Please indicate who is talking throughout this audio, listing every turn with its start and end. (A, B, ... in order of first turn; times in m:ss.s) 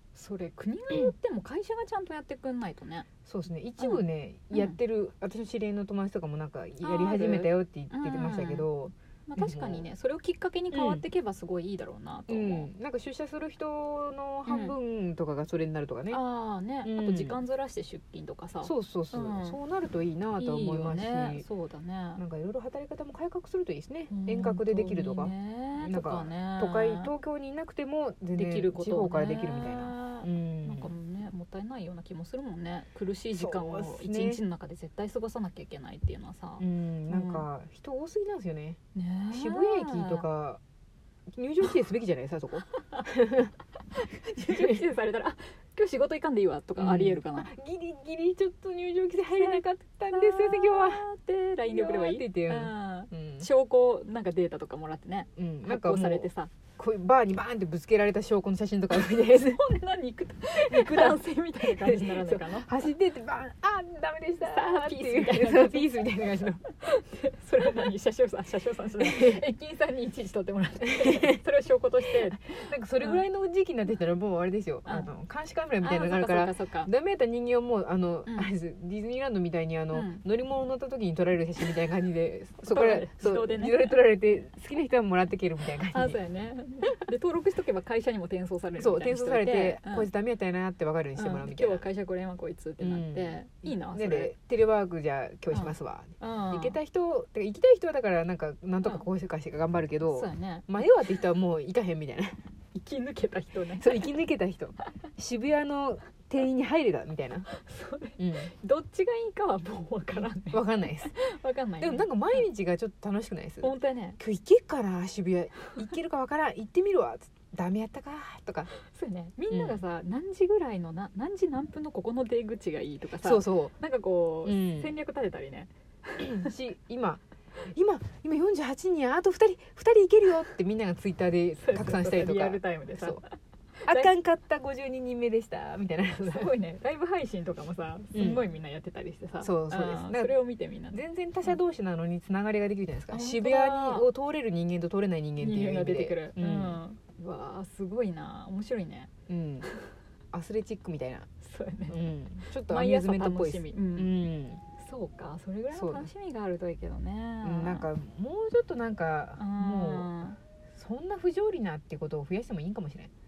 0:00.2-0:03.1 A
0:03.3-0:09.9 B
0:03.8-0:04.8 A
0:06.8-0:08.7 A
0:09.3-0:12.7 A
0:10.7-0:11.0 B
0:12.3-0:16.2 B
0:14.5-0:14.8 A
0:16.1-0:19.6 A
0:16.8-0:17.4 B
0:18.6-0:21.5 B
0:20.4-0:22.2 A
0:22.2-0:30.9 B
0:24.1-0:27.1 A
0:28.4-0:37.4 A
0:33.4-0:34.4 B
0:36.6-0:38.8 B
0:39.0-0:40.3 A
0:39.3-0:40.6 B
0:41.3-0:43.5 B
0:43.9-0:47.5 A
0:44.4-0:44.8 B
0:46.8-0:51.1 B
0:49.3-0:56.5 A
0:51.7-0:53.5 B
0:55.4-0:59.6 B
0:58.9-1:02.7 A
1:00.6-1:06.6 B
1:04.4-1:06.0 A
1:06.8-1:13.2 A
1:09.0-1:09.4 B
1:11.0-1:11.4 B
1:12.5-1:26.2 B
1:15.8-1:16.9 A
1:18.3-1:18.5 A
1:19.9-1:20.2 A
1:22.6-1:23.9 A
1:25.9-1:30.1 A
1:28.8-1:31.8 B
1:31.2-1:34.3 A
1:32.8-1:42.4 B
1:35.5-1:36.8 A
1:40.1-1:40.7 A
1:42.7-1:44.1 A
1:43.8-1:47.5 B
1:47.5-1:50.6 A
1:48.2-1:48.5 B
1:50.5-1:51.1 B
1:51.1-1:52.4 A
1:51.8-1:58.7 B
1:53.6-1:54.2 A
1:58.8-2:06.5 A
1:59.5-1:59.8 B
2:03.2-2:03.7 B
2:04.4-2:05.0 B
2:06.2-2:07.2 B
2:07.7-2:13.2 B
2:11.6-2:13.2 A
2:13.8-2:14.1 A
2:13.9-2:16.5 B
2:16.2-2:21.6 A
2:18.1-2:18.4 B
2:19.4-2:20.4 B
2:20.9-2:26.8 B
2:23.1-2:24.1 A
2:25.4-2:29.1 A
2:29.3-2:29.7 B
2:30.3-2:31.3 B
2:31.4-2:34.2 A
2:31.9-2:34.6 B
2:34.8-2:37.9 A
2:35.7-2:36.1 B
2:37.4-2:40.1 B
2:39.4-2:40.4 A
2:40.7-2:43.1 B